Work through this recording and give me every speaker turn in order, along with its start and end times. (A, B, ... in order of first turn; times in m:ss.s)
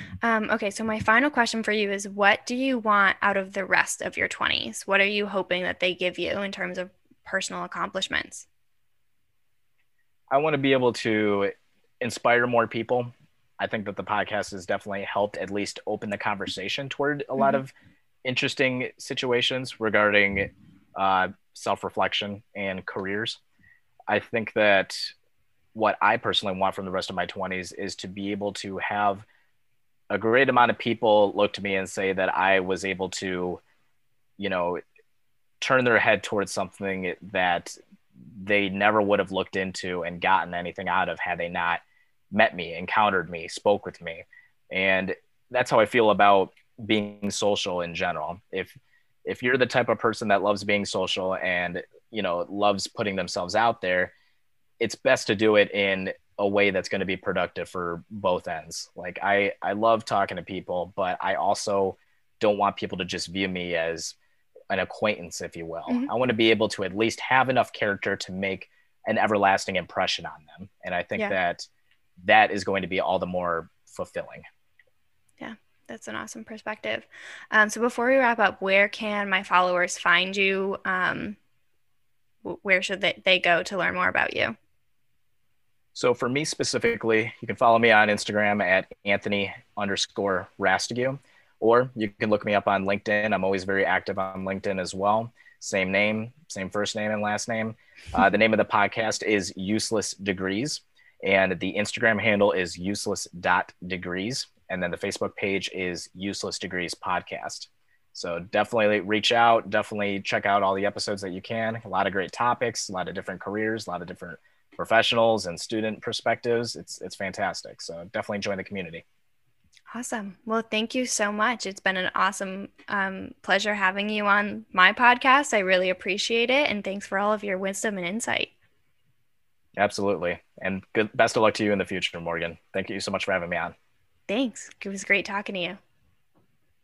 0:00.2-0:08.5 A
0:10.3-0:17.7 B
0:18.2-0:23.4 B
0:24.1-0:25.1 B
0:25.7-0:29.3 B
0:30.1-0:33.6 B
0:34.4-0:34.8 B
0:35.6-0:37.7 B
0:38.2-0:54.1 B
0:54.8-1:04.2 B
1:04.7-1:11.7 B
1:12.2-1:14.4 B
1:15.4-1:21.4 A
1:22.4-1:24.6 A
1:26.0-1:59.0 B
1:59.9-2:08.5 A
2:09.8-2:13.7 B
2:14.3-2:15.8 A